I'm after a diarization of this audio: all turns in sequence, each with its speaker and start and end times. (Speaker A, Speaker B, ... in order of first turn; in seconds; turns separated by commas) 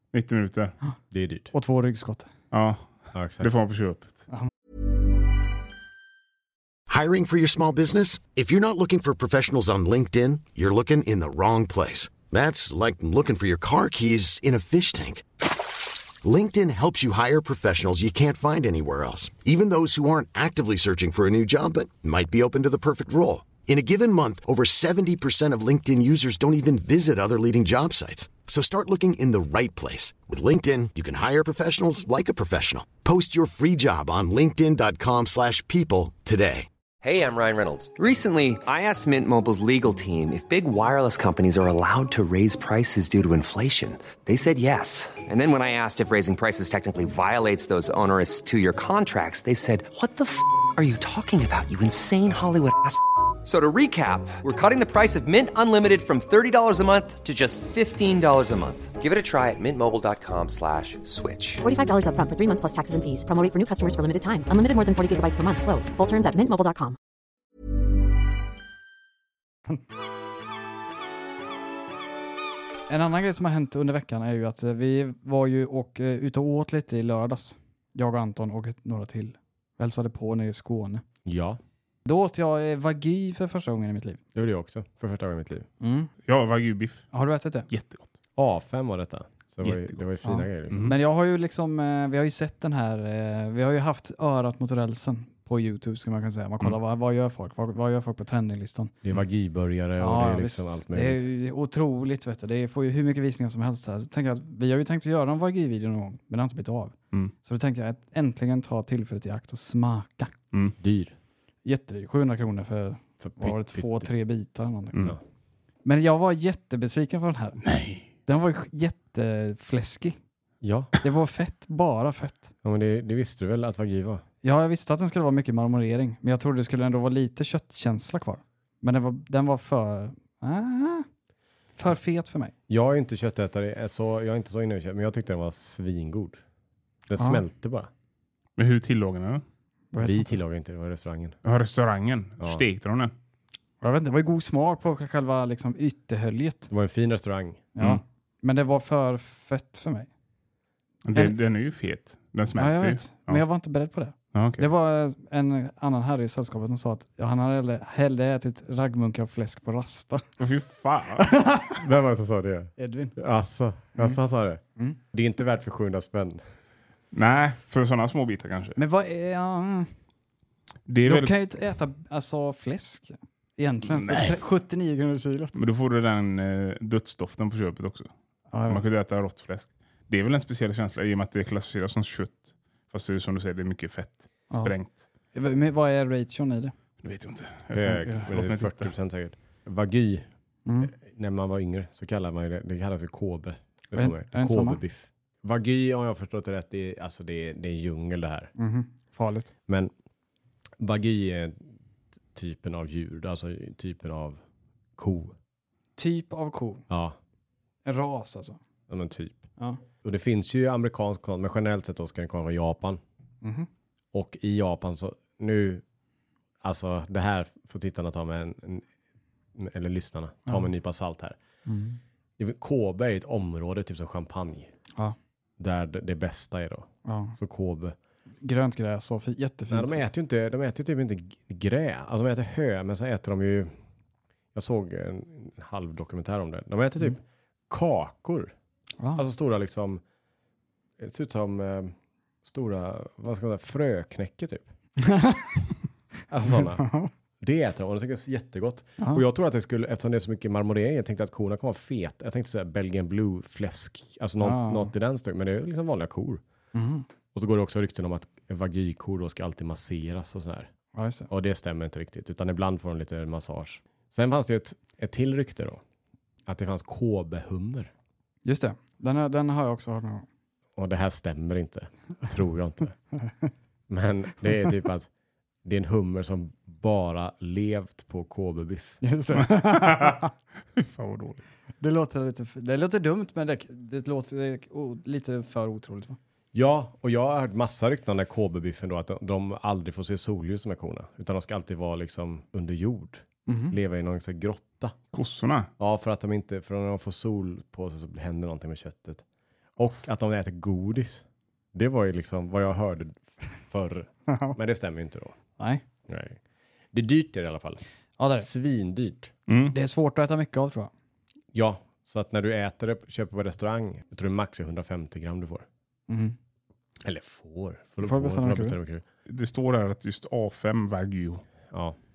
Speaker A: 0.1-0.8, Speaker B: 1.1-1.5, Speaker C: 1.5-2.3, Speaker A: 2.5-4.3, Speaker B: 3.1-3.5, Speaker D: 6.9-36.7, Speaker E: 37.0-61.6, Speaker F: 61.6-67.0, Speaker C: 72.9-81.0, Speaker B: 81.2-81.6, Speaker C: 82.1-84.2, Speaker B: 84.3-85.7, Speaker C: 85.8-86.1, Speaker A: 86.3-87.1, Speaker C: 87.1-87.7, Speaker A: 87.7-88.1, Speaker B: 88.4-90.9, Speaker A: 89.6-90.0, Speaker C: 90.2-98.9, Speaker A: 90.7-91.0, Speaker B: 99.0-101.3, Speaker C: 100.0-110.3, Speaker B: 110.8-111.2, Speaker C: 111.7-115.1, Speaker B: 113.2-114.1, Speaker C: 115.8-117.6, Speaker A: 117.6-118.1, Speaker C: 118.3-120.2, Speaker B: 120.6-120.9, Speaker C: 121.0-122.5, Speaker B: 122.6-124.2, Speaker C: 124.4-131.1, Speaker C: 131.8-132.5, Speaker B: 132.7-136.4, Speaker B: 137.1-137.9, Speaker C: 137.2-137.4, Speaker A: 138.6-139.4, Speaker C: 139.9-140.3, Speaker B: 140.0-141.4, Speaker A: 141.4-143.1, Speaker B: 142.4-142.7, Speaker C: 143.8-146.7, Speaker B: 146.7-147.7, Speaker C: 147.8-150.1, Speaker A: 151.1-153.4, Speaker C: 152.6-160.2, Speaker A: 154.3-154.7, Speaker A: 160.4-161.5, Speaker C: 161.3-161.7, Speaker B: 161.8-166.4, Speaker C: 162.8-163.2, Speaker A: 167.1-168.8, Speaker C: 168.8-169.9, Speaker A: 170.9-171.3, Speaker C: 171.1-175.6, Speaker A: 173.9-174.4, Speaker A: 175.6-178.1, Speaker C: 178.5-178.8, Speaker A: 178.7-185.0, Speaker C: 185.3-186.8, Speaker A: 187.0-188.9, Speaker B: 187.7-190.3, Speaker C: 190.7-190.9, Speaker B: 190.8-198.5, Speaker C: 193.9-194.8, Speaker C: 198.6-199.5, Speaker B: 200.8-201.8, Speaker B: 202.3-204.4, Speaker B: 205.0-205.3, Speaker C: 206.0-206.8, Speaker B: 206.9-207.2, Speaker C: 207.8-208.6, Speaker B: 208.9-209.5, Speaker B: 210.0-213.0, Speaker C: 213.4-213.7, Speaker B: 214.1-215.8, Speaker B: 216.6-218.8, Speaker B: 219.6-221.4, Speaker C: 221.7-222.0, Speaker B: 222.4-224.7, Speaker B: 225.6-228.0, Speaker C: 227.1-227.4, Speaker C: 228.4-230.0, Speaker B: 229.7-233.7, Speaker B: 234.5-238.5, Speaker B: 239.2-240.0, Speaker B: 241.0-244.7, Speaker C: 245.0-245.6, Speaker B: 246.3-256.4, Speaker C: 246.5-247.1, Speaker C: 254.4-254.9, Speaker C: 256.7-257.1, Speaker B: 257.3-260.7, Speaker C: 260.9-261.3, Speaker B: 261.3-265.8, Speaker B: 266.5-267.9, Speaker C: 268.5-270.3, Speaker B: 270.8-273.0, Speaker B: 273.9-275.1, Speaker B: 275.6-279.0, Speaker C: 279.0-280.3, Speaker A: 279.6-280.2, Speaker A: 280.8-281.4, Speaker C: 281.8-286.2, Speaker B: 286.5-295.0, Speaker C: 293.5-293.8, Speaker A: 295.1-295.7, Speaker B: 295.8-299.2, Speaker B: 299.8-305.4, Speaker B: 306.1-306.4, Speaker B: 306.9-309.3, Speaker C: 308.2-308.5, Speaker A: 309.5-309.8, Speaker C: 309.7-310.9, Speaker B: 311.5-315.7, Speaker C: 316.1-316.4, Speaker B: 317.0-319.0, Speaker C: 318.0-318.8, Speaker A: 319.3-321.4, Speaker B: 321.7-322.0